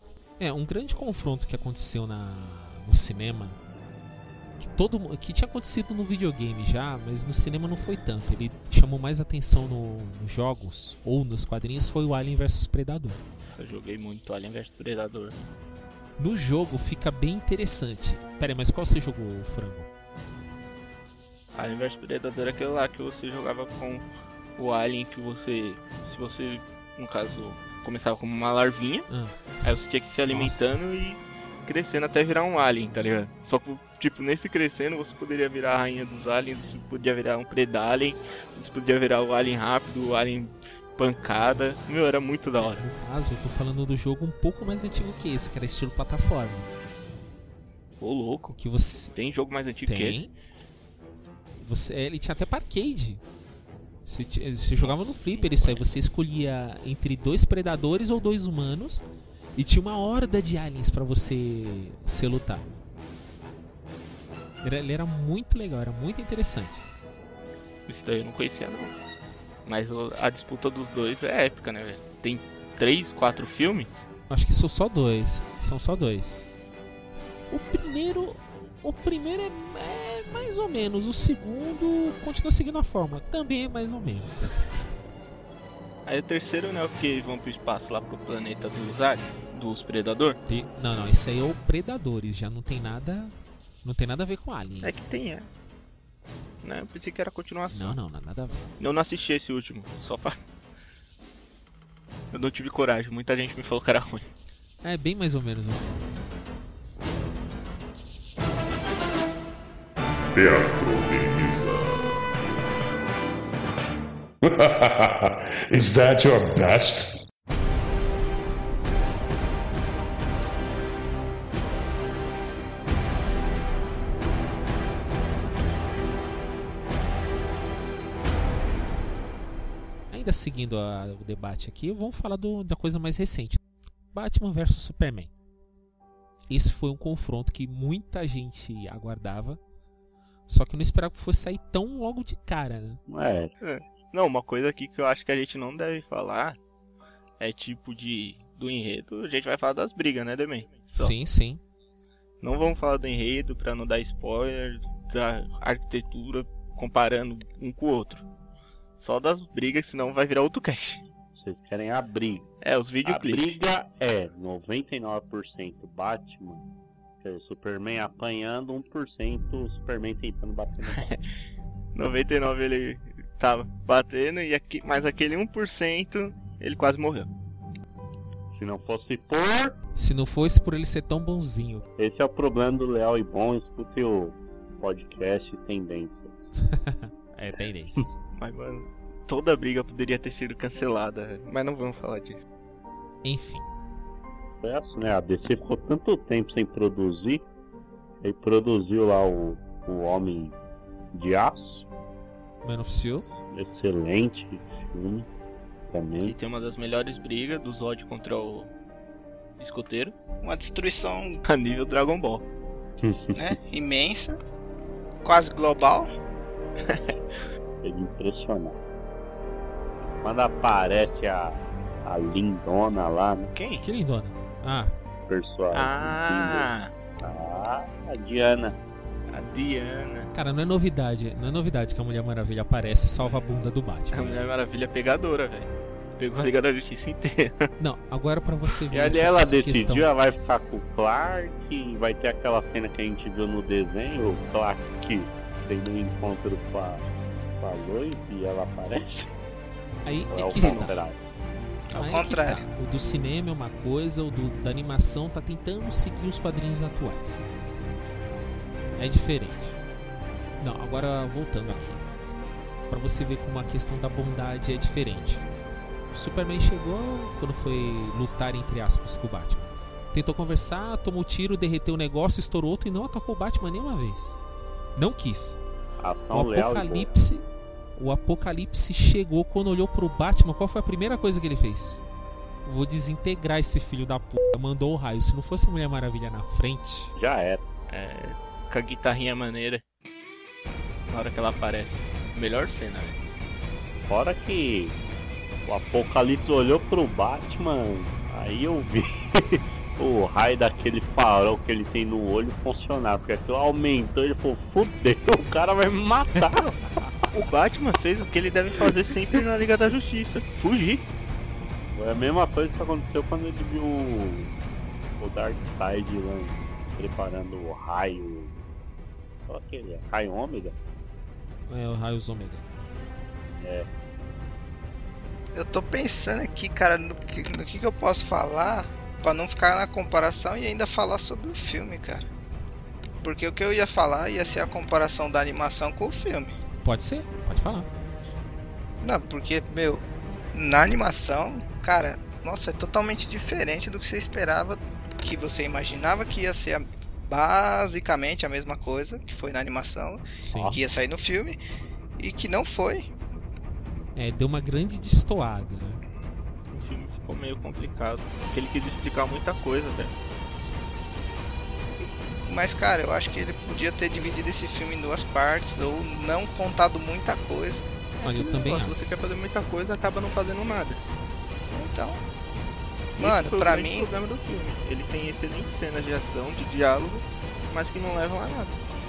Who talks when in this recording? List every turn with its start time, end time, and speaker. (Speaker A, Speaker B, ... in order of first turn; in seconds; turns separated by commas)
Speaker A: 0.4-3.6, Speaker A: 4.6-13.2, Speaker B: 13.4-15.5, Speaker A: 16.2-19.9, Speaker B: 21.5-24.0, Speaker B: 24.6-29.1, Speaker A: 29.1-29.4, Speaker B: 29.6-42.9, Speaker A: 30.3-30.8, Speaker A: 42.6-46.7, Speaker B: 48.0-48.6, Speaker A: 48.6-49.1, Speaker B: 49.1-50.2, Speaker A: 49.9-50.3, Speaker A: 51.6-53.2, Speaker A: 54.0-59.0, Speaker B: 54.8-55.9, Speaker A: 59.5-62.6, Speaker A: 64.6-66.8, Speaker B: 67.9-69.0, Speaker B: 69.7-73.9, Speaker A: 74.3-76.5, Speaker A: 77.5-84.7, Speaker B: 86.0-90.4, Speaker A: 90.5-94.9, Speaker B: 94.8-95.5, Speaker B: 96.6-98.0, Speaker A: 97.7-98.7, Speaker B: 98.8-100.3, Speaker B: 102.3-104.2, Speaker A: 104.8-106.1, Speaker C: 110.3-112.2, Speaker C: 114.4-117.0, Speaker A: 130.1-133.6, Speaker A: 134.1-135.3, Speaker A: 136.5-139.6, Speaker A: 140.5-143.0, Speaker D: 143.1-143.5, Speaker B: 143.6-146.6, Speaker B: 147.4-151.1, Speaker A: 150.9-151.6, Speaker B: 152.4-158.2, Speaker B: 159.0-161.0, Speaker D: 161.3-162.5, Speaker B: 162.6-163.6, Speaker D: 163.0-166.7, Speaker D: 167.2-171.1, Speaker B: 170.9-171.2, Speaker B: 171.9-177.3, Speaker D: 178.5-179.8, Speaker A: 179.9-181.8, Speaker D: 182.0-186.5, Speaker A: 186.6-188.1, Speaker B: 188.3-192.4, Speaker A: 193.2-193.7, Speaker D: 194.6-197.4, Speaker D: 198.2-200.6, Speaker D: 201.1-201.8, Speaker A: 202.6-203.3, Speaker D: 203.2-205.3, Speaker D: 205.9-206.3, Speaker B: 206.2-208.7, Speaker B: 209.6-210.1, Speaker E: 210.4-211.4, Speaker B: 211.4-212.4, Speaker D: 213.0-213.5, Speaker E: 213.3-214.4, Speaker E: 215.2-216.1, Speaker B: 216.8-217.2, Speaker D: 217.8-218.8, Speaker D: 220.2-223.5, Speaker B: 223.5-223.8, Speaker A: 223.8-224.9, Speaker D: 225.3-228.8, Speaker B: 225.7-226.9, Speaker B: 229.3-230.3, Speaker A: 230.3-234.4, Speaker B: 234.1-237.7, Speaker A: 237.8-240.1, Speaker D: 238.9-247.1, Speaker D: 247.6-249.3, Speaker A: 250.0-251.0, Speaker D: 250.3-251.4, Speaker E: 251.9-252.6, Speaker A: 251.9-257.5, Speaker A: 259.0-259.8, Speaker A: 260.6-262.0, Speaker A: 262.9-265.4, Speaker A: 266.1-274.4, Speaker A: 274.9-275.6, Speaker D: 275.9-277.2, Speaker A: 276.3-282.0, Speaker A: 282.6-287.1, Speaker D: 287.1-287.6, Speaker B: 287.9-289.8, Speaker B: 291.1-293.2, Speaker D: 294.1-295.0, Speaker D: 295.6-306.7, Speaker B: 307.3-311.0, Speaker D: 311.9-314.5, Speaker D: 315.2-318.6, Speaker D: 319.5-320.8, Speaker A: 321.7-322.6, Speaker D: 323.6-323.9, Speaker E: 325.5-332.3, Speaker E: 333.2-336.6, Speaker A: 336.8-337.9, Speaker E: 339.0-340.0, Speaker E: 340.5-351.6, Speaker A: 350.4-350.8, Speaker E: 352.2-353.1, Speaker A: 354.1-356.0, Speaker B: 356.7-360.1, Speaker E: 362.5-367.9, Speaker A: 368.2-369.1, Speaker B: 368.2-371.0, Speaker E: 371.7-372.2, Speaker E: 373.2-374.1, Speaker B: 373.2-378.8